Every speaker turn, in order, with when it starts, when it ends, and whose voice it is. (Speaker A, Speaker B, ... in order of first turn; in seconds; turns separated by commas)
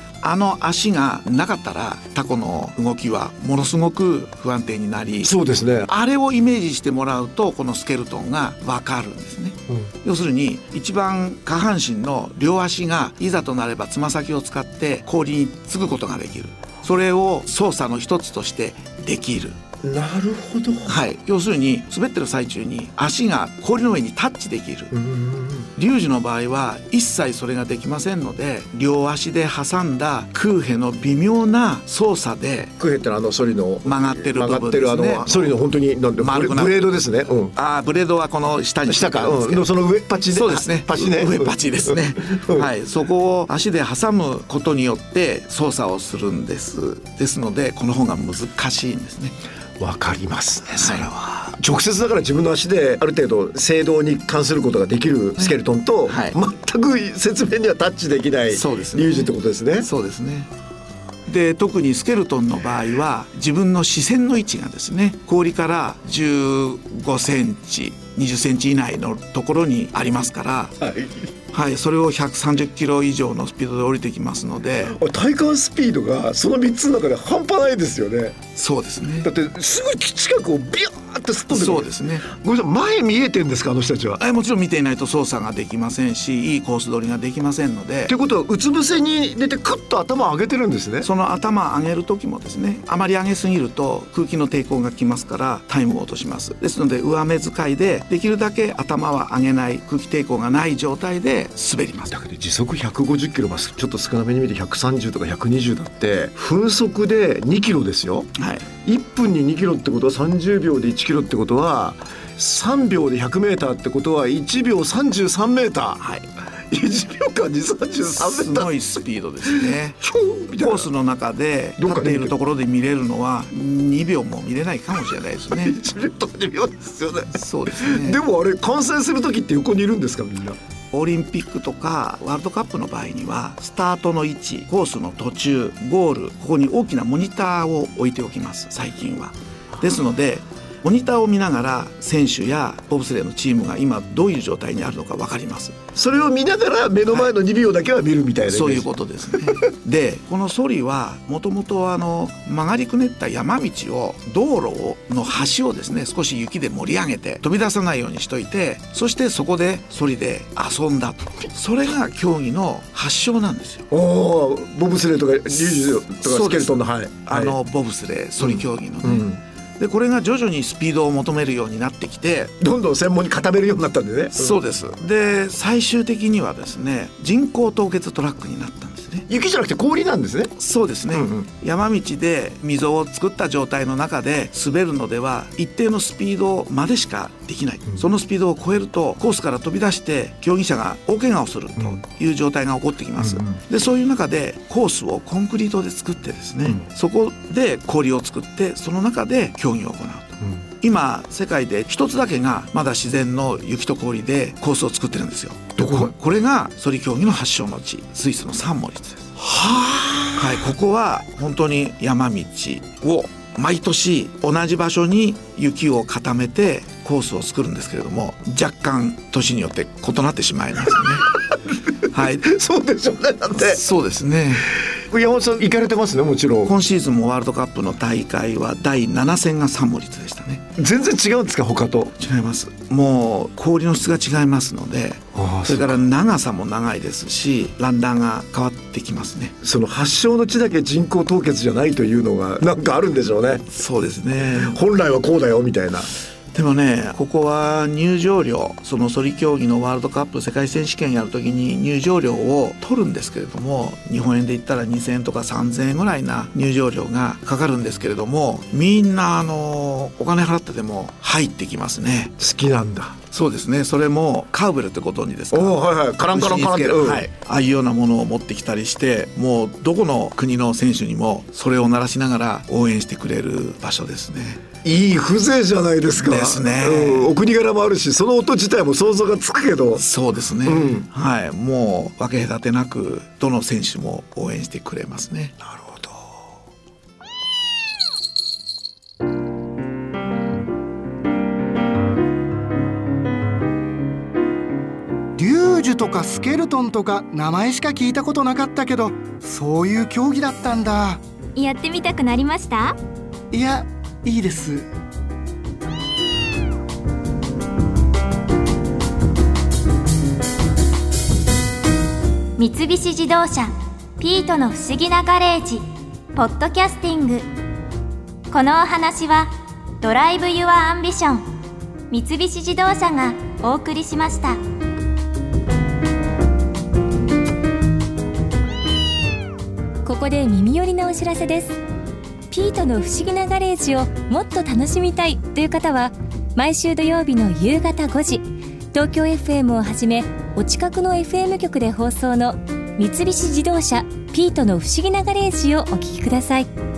Speaker A: 0.2-5.3, Speaker B: 5.2-5.9, Speaker A: 5.9-19.6, Speaker B: 19.8-21.0, Speaker A: 20.9-24.9, Speaker B: 24.9-25.7, Speaker A: 25.8-32.7, Speaker B: 32.8-37.5, Speaker A: 33.8-35.5, Speaker A: 36.2-36.9, Speaker A: 37.5-39.7, Speaker B: 38.8-42.7, Speaker A: 40.3-49.3, Speaker B: 49.8-59.9, Speaker A: 50.7-51.5, Speaker A: 56.1-56.3, Speaker A: 58.5-60.5, Speaker A: 61.3-70.7, Speaker B: 70.8-71.3, Speaker A: 71.5-75.0, Speaker B: 74.8-78.4, Speaker A: 78.5-79.3, Speaker B: 79.2-84.2, Speaker A: 81.5-82.2, Speaker A: 84.2-88.1, Speaker B: 88.1-91.1, Speaker A: 91.0-102.1, Speaker B: 102.1-108.3, Speaker A: 108.4-108.7, Speaker B: 108.8-116.0, Speaker A: 116.0-116.2, Speaker B: 116.7-118.7, Speaker A: 118.1-120.0, Speaker B: 119.4-120.9, Speaker A: 120.6-125.8, Speaker B: 121.8-122.3, Speaker B: 125.6-130.6, Speaker A: 127.3-128.2, Speaker A: 130.9-145.8, Speaker B: 145.9-148.9, Speaker A: 148.5-163.8, Speaker B: 163.9-167.6, Speaker A: 165.5-172.5, Speaker B: 168.4-169.4, Speaker B: 172.6-174.6, Speaker A: 174.3-179.3, Speaker B: 179.3-180.5, Speaker A: 180.6-209.3, Speaker B: 181.1-181.5, Speaker B: 193.2-193.6, Speaker B: 205.8-206.1, Speaker B: 209.4-210.6, Speaker A: 210.3-221.3, Speaker A: 222.1-222.5, Speaker B: 222.2-223.8, Speaker A: 223.6-224.7, Speaker B: 225.1-226.7, Speaker A: 226.6-230.6, Speaker B: 230.8-232.1, Speaker A: 232.2-239.5, Speaker B: 235.3-236.0, Speaker B: 239.6-243.6, Speaker A: 243.7-244.8, Speaker B: 244.6-246.1, Speaker A: 246.5-262.3, Speaker B: 262.4-263.2, Speaker A: 263.3-274.6, Speaker B: 265.5-267.3, Speaker B: 274.8-280.0, Speaker A: 276.2-277.4, Speaker A: 279.9-285.5, Speaker B: 280.6-281.1, Speaker B: 285.6-286.1, Speaker C: 295.4-301.2, Speaker D: 301.6-302.9, Speaker C: 303.5-304.9, Speaker D: 312.6-315.8, Speaker D: 316.3-317.4, Speaker D: 318.5-321.4, Speaker D: 322.1-324.6, Speaker E: 330.0-331.8, Speaker E: 332.5-346.7